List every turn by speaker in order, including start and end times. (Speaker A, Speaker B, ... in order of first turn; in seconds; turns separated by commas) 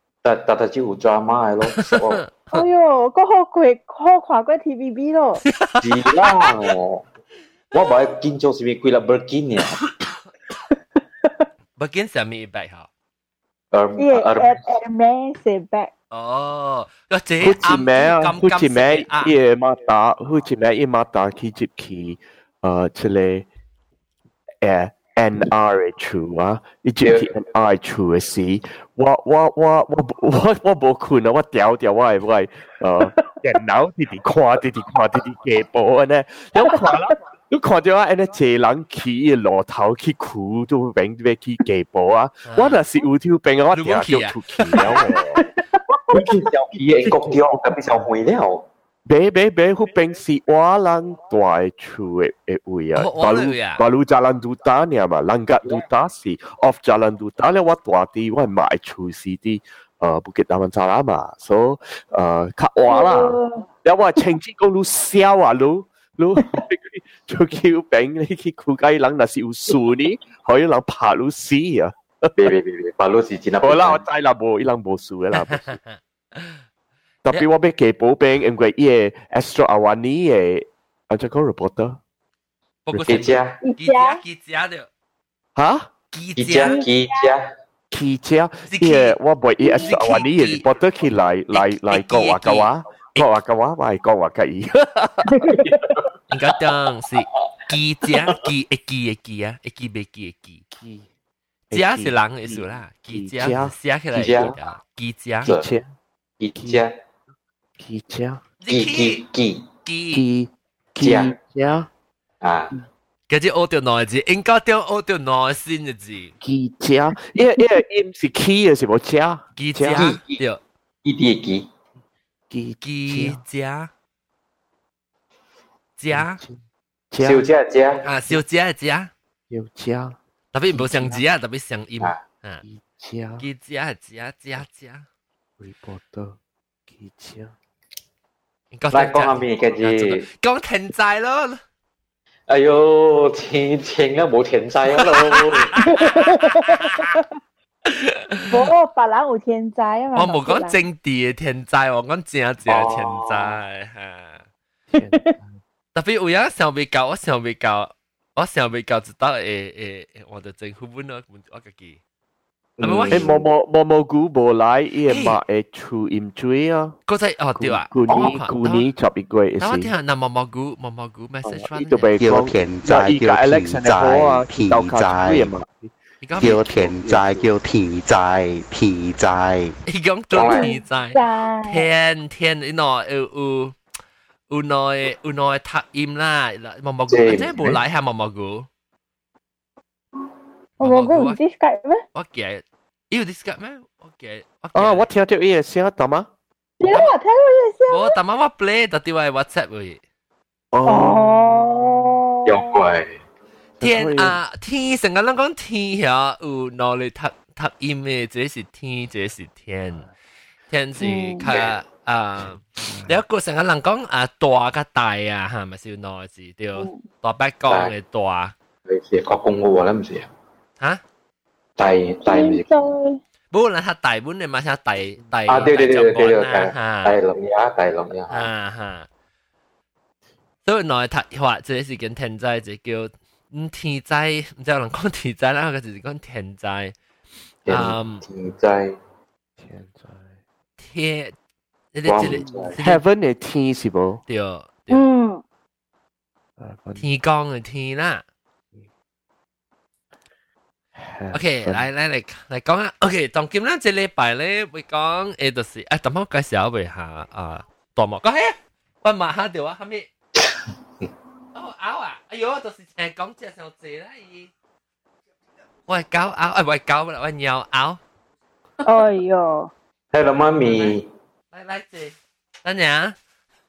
Speaker A: 0.2-2.2, Speaker B: 1.8-2.6, Speaker C: 2.5-5.4, Speaker B: 5.5-6.5, Speaker A: 5.8-7.0, Speaker A: 7.7-9.8, Speaker B: 11.8-12.9, Speaker A: 13.7-14.7, Speaker C: 14.0-15.9, Speaker B: 16.1-19.3, Speaker D: 17.4-23.5, Speaker D: 24.6-45.4, Speaker A: 27.0-27.3, Speaker C: 36.6-37.0, Speaker B: 42.5-42.8, Speaker B: 43.7-45.0, Speaker A: 46.1-48.6, Speaker D: 49.1-72.5, Speaker B: 53.0-53.8, Speaker C: 62.9-63.6, Speaker A: 72.4-74.0, Speaker D: 73.6-75.8, Speaker B: 75.4-76.6, Speaker D: 77.2-82.0, Speaker B: 82.8-84.9, Speaker D: 82.9-83.3, Speaker A: 83.0-83.6, Speaker C: 83.6-84.2, Speaker D: 85.5-85.9, Speaker B: 86.1-86.8, Speaker A: 86.4-87.5, Speaker C: 86.6-87.2, Speaker D: 87.9-95.5, Speaker B: 88.7-89.2, Speaker C: 89.6-90.2, Speaker B: 89.7-90.7, Speaker B: 91.5-93.3, Speaker B: 96.3-100.6, Speaker D: 100.7-101.1, Speaker D: 101.7-103.7, Speaker B: 101.7-105.5, Speaker A: 104.1-104.6, Speaker D: 105.4-105.9, Speaker A: 106.4-106.9, Speaker D: 106.6-106.8, Speaker D: 107.8-108.4, Speaker B: 108.6-109.2, Speaker A: 108.7-109.7, Speaker B: 109.8-110.2, Speaker D: 110.1-111.9, Speaker A: 111.0-111.3, Speaker A: 112.4-112.7, Speaker B: 113.3-116.3, Speaker D: 116.4-120.0, Speaker B: 119.6-120.6, Speaker A: 120.0-120.4, Speaker A: 121.0-121.7, Speaker D: 122.5-123.4, Speaker B: 122.8-123.9, Speaker B: 126.0-126.4, Speaker D: 126.1-126.6, Speaker D: 127.1-127.5, Speaker A: 127.2-128.0, Speaker B: 128.0-129.1, Speaker D: 129.5-130.2, Speaker B: 130.5-132.6, Speaker D: 130.7-131.2, Speaker D: 132.6-133.4, Speaker B: 133.4-135.1, Speaker D: 135.6-136.4, Speaker D: 136.9-137.5, Speaker B: 138.7-141.6, Speaker A: 138.9-140.2, Speaker A: 142.5-145.8, Speaker B: 145.3-147.1, Speaker C: 145.8-147.2, Speaker B: 147.9-148.7, Speaker C: 148.5-150.8, Speaker B: 150.2-154.4, Speaker A: 152.7-153.6, Speaker D: 154.9-155.6, Speaker B: 155.9-162.0, Speaker A: 162.8-163.4, Speaker B: 162.8-163.3, Speaker D: 163.1-167.0, Speaker B: 165.1-165.4, Speaker B: 167.1-168.9, Speaker D: 167.6-169.9, Speaker B: 169.6-172.1, Speaker D: 171.4-175.9, Speaker E: 172.2-175.5, Speaker B: 176.2-176.7, Speaker E: 176.4-179.8, Speaker D: 176.4-177.5, Speaker B: 179.9-183.8, Speaker A: 180.3-180.7, Speaker C: 180.4-181.9, Speaker B: 184.5-188.7, Speaker A: 187.1-187.8, Speaker B: 190.8-191.4, Speaker C: 190.8-192.0, Speaker B: 192.1-195.1, Speaker D: 194.7-196.3, Speaker C: 196.8-198.2, Speaker B: 196.9-197.1, Speaker B: 197.9-200.0, Speaker D: 200.7-201.6, Speaker C: 200.9-202.7, Speaker A: 202.5-203.2, Speaker D: 203.8-204.4, Speaker B: 203.8-210.1, Speaker B: 210.7-218.6, Speaker C: 211.0-211.5, Speaker A: 211.5-211.7, Speaker D: 212.8-213.2, Speaker C: 216.8-217.0, Speaker A: 217.7-217.9, Speaker A: 218.9-220.3, Speaker A: 221.8-222.7, Speaker C: 222.2-223.2, Speaker B: 223.5-227.2, Speaker A: 225.5-228.5, Speaker B: 228.3-229.1, Speaker B: 230.7-236.9, Speaker A: 237.7-239.0, Speaker B: 237.7-238.2, Speaker D: 239.6-240.3, Speaker B: 240.8-241.3, Speaker B: 241.9-243.0, Speaker A: 242.1-242.8, Speaker D: 242.3-244.2, Speaker B: 244.3-245.1, Speaker C: 244.9-245.4, Speaker D: 246.6-247.1, Speaker B: 247.0-248.2, Speaker D: 251.0-251.8, Speaker B: 251.3-260.1, Speaker B: 261.5-264.5, Speaker B: 265.9-268.0, Speaker C: 268.8-269.7, Speaker A: 270.1-271.1, Speaker B: 270.6-271.0, Speaker B: 271.5-273.1